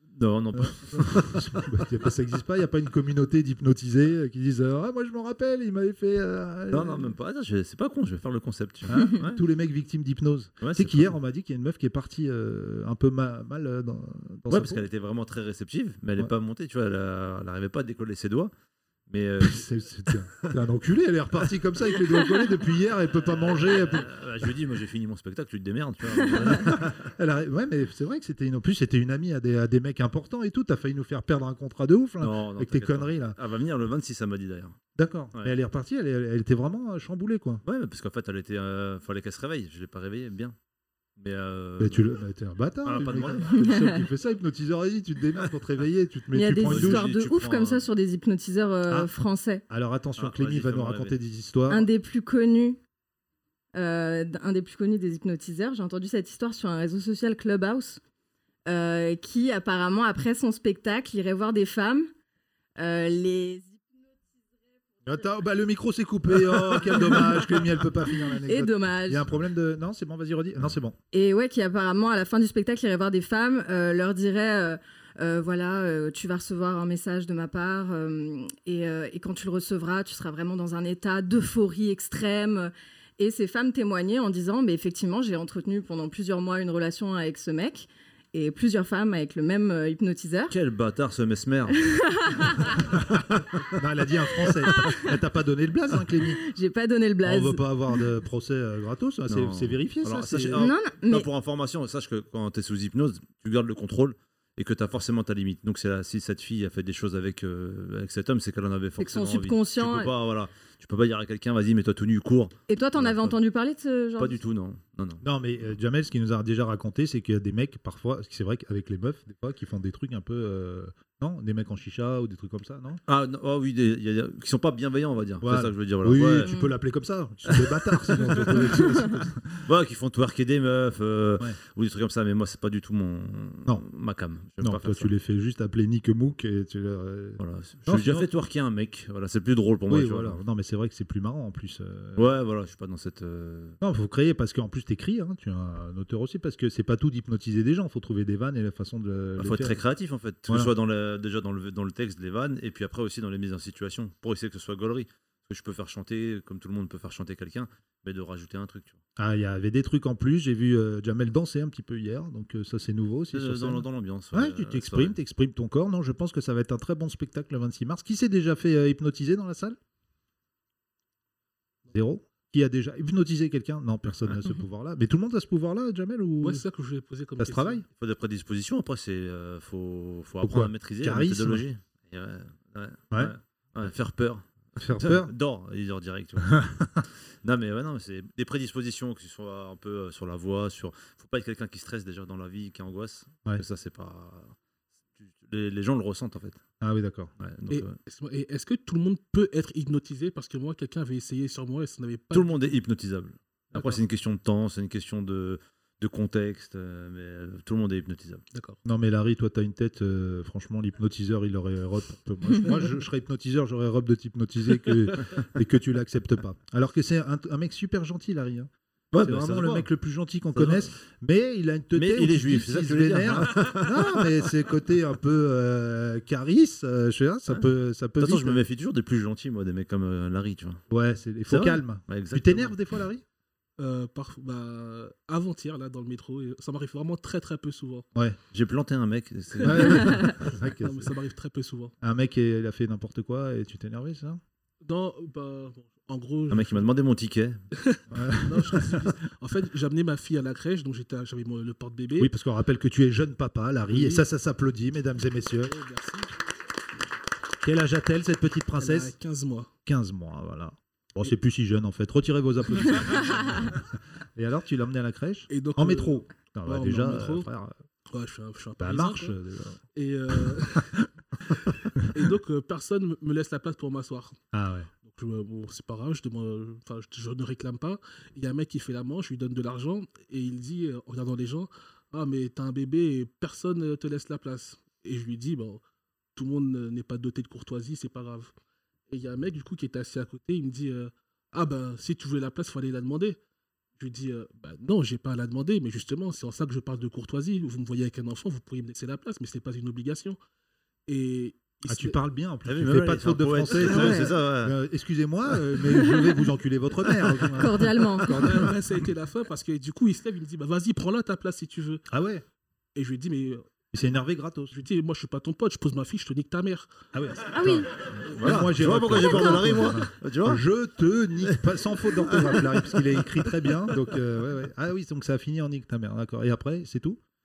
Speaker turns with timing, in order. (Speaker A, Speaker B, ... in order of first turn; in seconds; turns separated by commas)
Speaker A: 0.1-1.7, Speaker B: 0.5-7.2, Speaker A: 6.7-9.4, Speaker B: 8.9-14.8, Speaker A: 10.6-11.1, Speaker A: 14.5-18.5, Speaker A: 19.1-19.7, Speaker B: 19.4-24.2, Speaker A: 23.4-27.1, Speaker B: 26.3-33.4, Speaker A: 32.2-34.8, Speaker B: 35.0-37.6, Speaker A: 37.6-40.5, Speaker A: 41.2-42.1, Speaker B: 41.8-47.1, Speaker A: 42.8-43.6, Speaker C: 43.5-44.0, Speaker C: 46.3-49.6, Speaker A: 46.7-47.8, Speaker B: 48.9-49.1, Speaker B: 49.7-51.9, Speaker A: 50.2-51.1, Speaker C: 51.7-52.8, Speaker C: 53.7-58.0, Speaker C: 58.7-62.1, Speaker C: 62.8-64.0, Speaker B: 65.0-71.0, Speaker C: 66.9-67.4, Speaker C: 68.5-69.3, Speaker C: 71.1-90.5, Speaker A: 90.5-91.8, Speaker C: 91.8-92.8, Speaker B: 93.7-96.4, Speaker C: 94.6-95.0, Speaker C: 96.4-97.6, Speaker B: 97.2-100.7, Speaker A: 99.3-113.3, Speaker C: 100.6-101.3, Speaker C: 109.0-110.1, Speaker C: 112.7-114.4, Speaker A: 114.2-115.2, Speaker B: 115.2-123.0, Speaker A: 123.1-126.6, Speaker B: 125.4-129.7, Speaker A: 127.6-128.6, Speaker C: 128.7-129.1, Speaker A: 129.6-135.1, Speaker B: 134.6-138.3, Speaker A: 137.4-140.4, Speaker B: 139.9-142.2, Speaker A: 142.2-143.8, Speaker B: 143.8-149.8, Speaker A: 149.4-159.0, Speaker B: 159.2-169.8, Speaker A: 163.3-165.2, Speaker B: 171.9-176.6, Speaker D: 176.4-177.8, Speaker B: 177.4-177.8, Speaker A: 177.9-194.5, Speaker B: 180.4-181.7, Speaker B: 184.8-185.3, Speaker B: 186.4-187.0, Speaker A: 195.2-196.6, Speaker B: 196.8-197.3, Speaker A: 197.4-197.9, Speaker D: 197.7-202.6, Speaker A: 202.3-208.4, Speaker D: 203.7-204.0, Speaker D: 208.5-208.8, Speaker B: 208.8-228.6, Speaker A: 219.1-219.9, Speaker A: 220.5-220.9, Speaker A: 221.9-224.2, Speaker A: 228.2-230.8, Speaker B: 230.9-233.2, Speaker A: 231.5-232.7, Speaker D: 233.8-238.1, Speaker A: 238.5-240.3, Speaker B: 239.6-241.1, Speaker D: 240.8-241.9, Speaker B: 242.0-244.4, Speaker D: 244.8-246.9, Speaker A: 246.5-247.6, Speaker D: 247.8-252.3, Speaker B: 248.1-249.0, Speaker B: 252.2-255.7, Speaker D: 253.9-254.2, Speaker D: 255.6-256.3, Speaker B: 257.6-259.1, Speaker D: 258.8-259.7, Speaker B: 259.8-267.8, Speaker D: 265.5-267.5, Speaker D: 268.1-269.3, Speaker B: 268.8-269.8, Speaker D: 269.9-271.1, Speaker D: 272.1-274.4, Speaker B: 274.5-274.9, Speaker D: 275.0-285.8, Speaker D: 286.4-288.5, Speaker D: 289.1-293.4, Speaker D: 294.0-300.4, Speaker D: 301.1-302.2, Speaker B: 301.9-308.8, Speaker A: 302.6-304.7, Speaker C: 303.8-304.3, Speaker C: 306.0-306.4, Speaker C: 307.5-308.4, Speaker D: 308.3-312.0, Speaker B: 312.1-312.4, Speaker D: 312.9-313.7, Speaker B: 313.9-314.7, Speaker D: 314.7-316.9, Speaker B: 317.1-327.2, Speaker C: 317.5-317.9, Speaker A: 318.3-320.6, Speaker A: 322.3-323.0